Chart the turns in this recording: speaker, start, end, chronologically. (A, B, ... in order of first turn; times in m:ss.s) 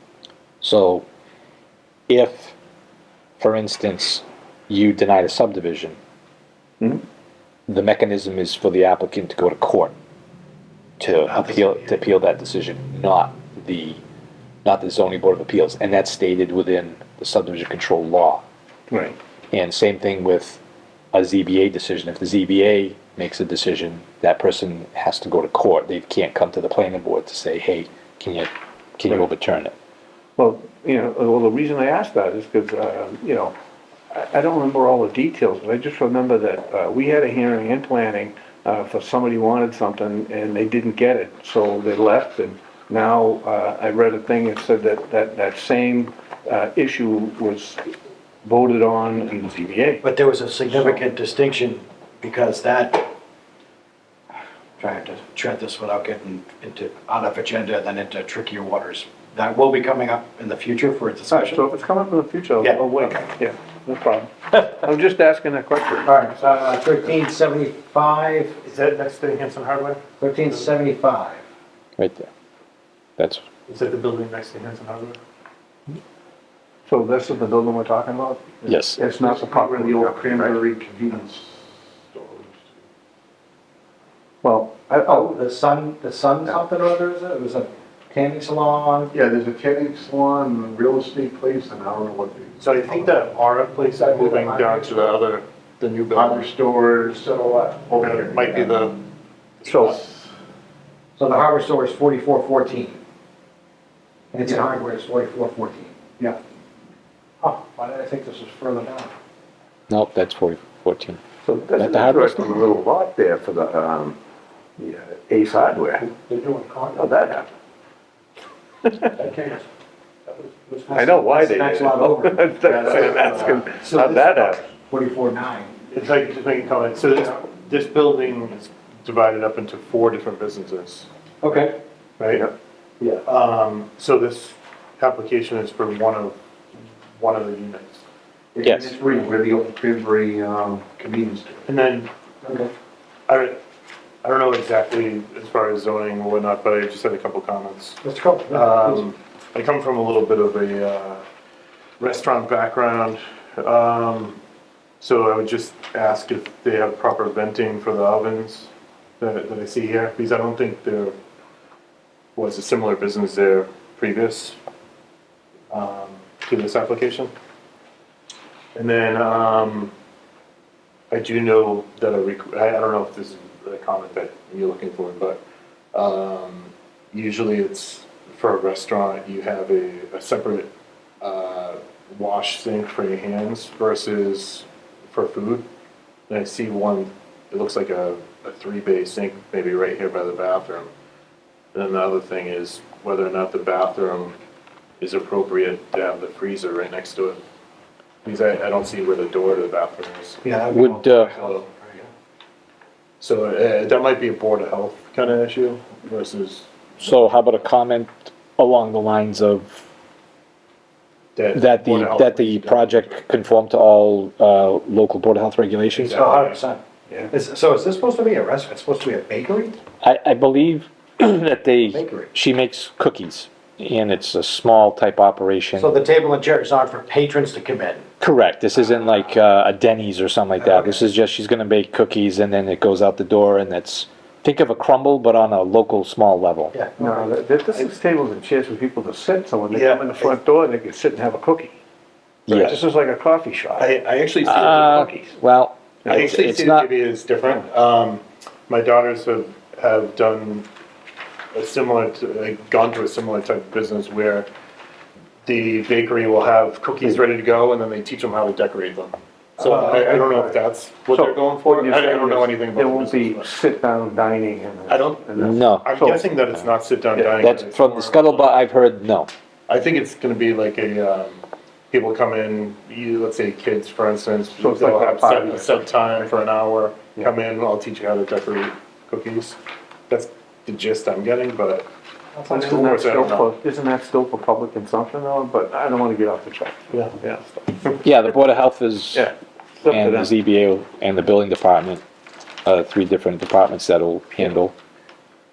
0:00.6-0:01.0 A
0:02.1-0:02.6 A
0:03.4-0:06.0 A
0:07.7-0:09.9 A
0:11.0-0:14.0 A
0:11.3-0:11.9 B
0:14.6-0:18.4 A
0:18.9-0:19.2 C
0:19.5-0:20.6 A
0:21.1-0:29.8 A
0:30.4-0:33.6 C
0:34.1-0:50.0 C
0:50.0-0:53.1 B
0:50.7-0:51.0 C
0:54.8-1:01.6 B
1:01.3-1:06.2 C
1:02.6-1:03.3 B
1:06.0-1:08.6 B
1:08.6-1:10.7 D
1:10.2-1:11.4 B
1:12.0-1:12.3 A
1:13.2-1:13.4 A
1:13.7-1:15.2 D
1:16.9-1:20.6 C
1:18.6-1:19.0 A
1:19.1-1:22.7 E
1:24.4-1:25.3 C
1:25.0-1:29.1 B
1:29.1-1:32.6 E
1:32.6-1:36.5 D
1:34.0-1:35.2 B
1:36.1-1:38.8 E
1:37.9-1:39.0 D
1:39.6-1:40.0 D
1:41.2-1:43.0 B
1:44.3-1:46.4 B
1:47.4-1:49.1 B
1:49.9-1:51.2 A
1:51.4-1:54.2 C
1:51.8-1:52.5 A
1:52.5-1:52.9 E
1:54.8-1:56.1 C
1:56.1-1:57.1 B
1:56.9-1:57.5 C
1:58.9-1:59.1 C
1:59.2-1:59.6 B
2:00.3-2:05.7 B
2:00.9-2:04.7 C
2:02.6-2:03.6 E
2:02.8-2:03.5 D
2:05.9-2:11.1 D
2:11.4-2:11.8 B
2:12.2-2:12.5 D
2:13.3-2:16.4 D
2:17.2-2:18.0 D
2:18.6-2:21.6 E
2:18.6-2:19.0 A
2:21.7-2:22.1 D
2:22.4-2:22.7 B
2:23.3-2:23.6 D
2:24.2-2:31.2 D
2:28.0-2:29.0 B
2:32.0-2:34.4 D
2:35.0-2:41.2 D
2:42.4-2:44.6 D
2:45.7-2:47.3 D
2:48.8-2:49.9 D
2:51.1-2:55.4 D
2:55.9-3:00.7 D
3:01.2-3:05.7 D
3:06.3-3:10.9 D
3:11.7-3:14.4 D
3:15.0-3:17.4 D
3:18.2-3:20.4 D
3:20.4-3:22.1 B
3:20.7-3:21.4 A
3:23.2-3:27.4 D
3:27.0-3:29.8 A
3:31.4-3:33.2 D
3:31.5-3:36.2 A
3:36.0-3:36.6 D
3:36.1-3:39.8 B
3:40.0-3:45.9 A
3:41.9-3:42.3 B
3:45.8-3:48.1 B
3:48.2-3:56.7 A
3:50.6-3:51.0 B
3:56.7-3:57.4 B
3:57.0-4:01.8 C
3:59.7-4:00.3 B
4:02.5-4:02.8 A
4:02.5-4:04.0 C
4:03.8-4:05.0 D
4:04.4-4:06.9 A
4:04.5-4:05.4 C
4:06.1-4:10.7 D
4:11.5-4:14.5 D
4:15.4-4:23.5 D
4:19.6-4:20.5 B
4:19.7-4:20.3 C
4:21.1-4:27.5 C
4:24.9-4:28.5 D
4:25.4-4:25.9 A
4:27.4-4:29.3 A
4:29.7-4:39.6 D
4:34.6-4:36.3 C
4:40.1-4:41.9 D
4:42.4-4:48.0 C
4:42.4-4:43.5 D
4:46.9-4:47.2 D
4:48.0-4:49.3 A
4:49.1-4:50.3 C
4:49.9-4:52.0 A
4:52.6-4:54.7 A